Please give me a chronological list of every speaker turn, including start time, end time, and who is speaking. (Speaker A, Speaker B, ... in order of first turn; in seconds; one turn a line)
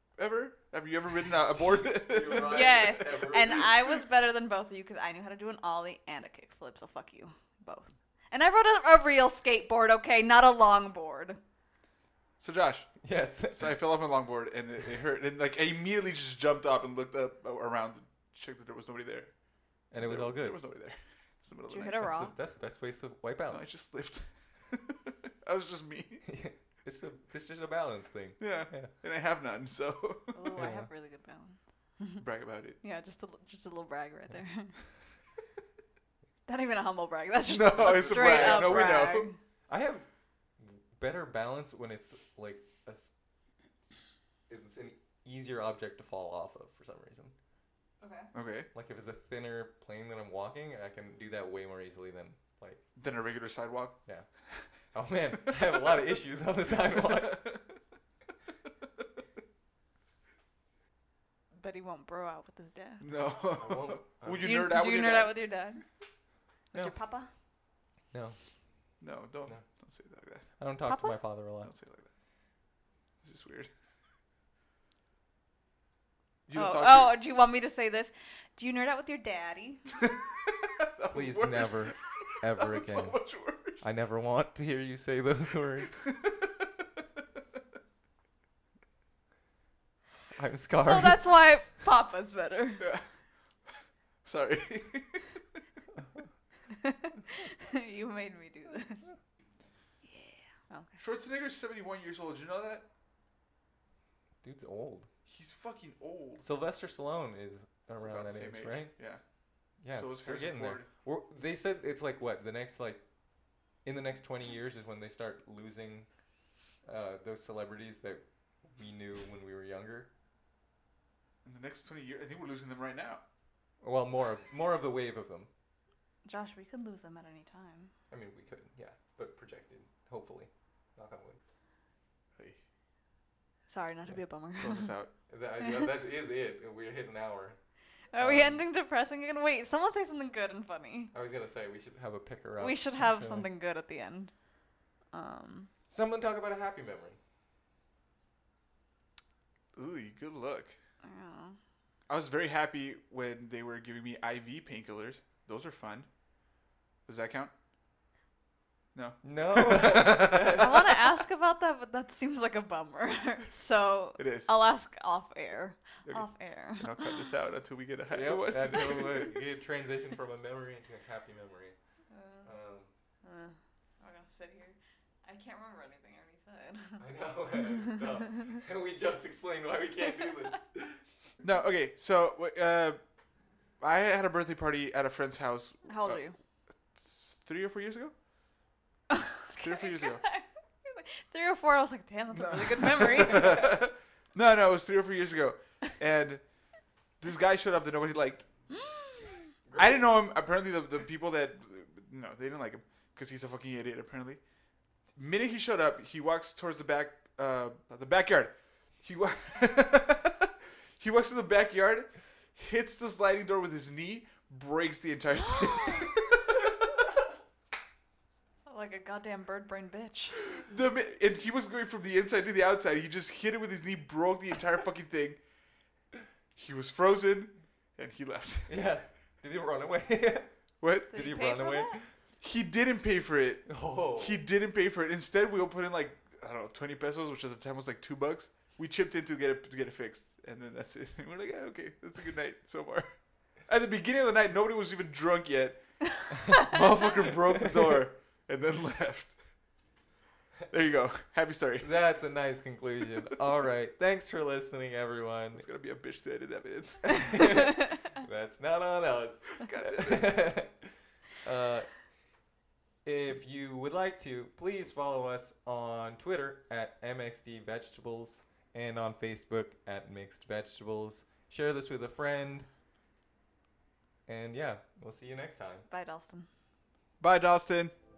Speaker A: 0.2-3.6
Speaker B: 1.6-3.7
Speaker C: 2.4-11.4
Speaker A: 12.4-12.9
Speaker B: 13.0-13.8
Speaker A: 13.5-19.3
Speaker B: 19.9-20.6
Speaker A: 19.9-22.1
Speaker C: 21.7-22.3
Speaker B: 22.0-23.7
Speaker A: 23.5-26.2
Speaker B: 26.3-28.9
Speaker A: 28.4-30.6
Speaker C: 30.3-32.2
Speaker B: 30.6-30.9
Speaker A: 32.2-32.8
Speaker C: 32.8-34.8
Speaker C: 36.5-39.4
Speaker A: 37.5-39.3
Speaker B: 37.8-40.1
Speaker B: 40.6-43.1
Speaker B: 44.5-47.3
Speaker C: 48.0-48.3
Speaker A: 48.3-48.7
Speaker B: 48.7-52.8
Speaker A: 53.0-54.0
Speaker B: 54.9-57.6
Speaker A: 56.9-57.6
Speaker C: 61.6-63.1
Speaker A: 63.0-65.5
Speaker B: 63.5-64.6
Speaker C: 64.4-65.8
Speaker C: 66.7-67.3
Speaker B: 68.1-68.4
Speaker A: 69.0-70.5
Speaker B: 70.6-71.7
Speaker C: 70.8-71.2
Speaker A: 71.6-72.1
Speaker A: 73.2-73.7
Speaker A: 76.5-77.2
Speaker C: 76.5-80.0
Speaker A: 80.0-83.9
Speaker B: 81.1-83.2
Speaker B: 83.8-86.1
Speaker A: 86.2-86.8
Speaker B: 90.3-91.2
Speaker C: 90.8-92.9
Speaker A: 92.8-93.1
Speaker A: 94.2-95.4
Speaker B: 96.0-96.3
Speaker C: 96.7-99.1
Speaker C: 100.0-101.0
Speaker A: 101.0-102.8
Speaker B: 104.4-105.1
Speaker A: 105.3-106.5
Speaker B: 106.4-108.9
Speaker A: 108.0-109.2
Speaker B: 109.8-113.0
Speaker A: 109.9-110.9
Speaker B: 113.8-116.1
Speaker B: 116.8-118.2
Speaker B: 118.7-120.1
Speaker A: 121.4-123.2
Speaker B: 123.8-125.5
Speaker C: 126.2-127.9
Speaker B: 128.1-131.4
Speaker C: 133.7-134.9
Speaker A: 134.6-135.1
Speaker B: 135.3-137.6
Speaker C: 138.1-141.1
Speaker B: 138.2-138.6
Speaker B: 141.1-143.5
Speaker C: 142.6-144.3
Speaker C: 145.1-145.7
Speaker B: 145.9-147.2
Speaker A: 149.7-150.8
Speaker C: 151.0-151.6
Speaker A: 152.1-156.1
Speaker A: 157.1-157.5
Speaker A: 158.9-160.7
Speaker B: 159.2-161.1
Speaker C: 160.5-167.2
Speaker A: 164.2-164.5
Speaker A: 166.1-169.4
Speaker B: 168.1-171.8
Speaker C: 172.1-172.5
Speaker B: 172.4-172.9
Speaker C: 173.2-177.0
Speaker B: 177.0-181.0
Speaker A: 181.4-183.0
Speaker A: 183.8-186.2
Speaker C: 185.9-186.3
Speaker A: 186.9-188.1
Speaker C: 189.1-193.8
Speaker A: 189.6-190.2
Speaker A: 192.4-196.4
Speaker A: 197.2-198.5
Speaker C: 198.7-199.4
Speaker B: 199.7-200.1
Speaker A: 199.8-204.4
Speaker A: 205.2-216.6
Speaker C: 215.4-216.1
Speaker C: 218.7-220.4
Speaker A: 220.5-225.4
Speaker A: 226.6-228.8
Speaker B: 228.7-230.5
Speaker A: 230.8-231.1
Speaker B: 231.0-232.1
Speaker C: 231.1-232.0
Speaker A: 232.4-243.1
Speaker B: 233.7-234.4
Speaker A: 243.7-245.8
Speaker B: 246.4-246.7
Speaker A: 246.5-249.4
Speaker A: 250.7-251.9
Speaker B: 251.8-255.7
Speaker A: 255.6-257.4
Speaker B: 257.0-260.9
Speaker A: 259.6-260.4
Speaker B: 261.4-261.9
Speaker B: 263.1-272.7
Speaker B: 274.3-275.9
Speaker C: 275.9-276.5
Speaker A: 277.2-277.9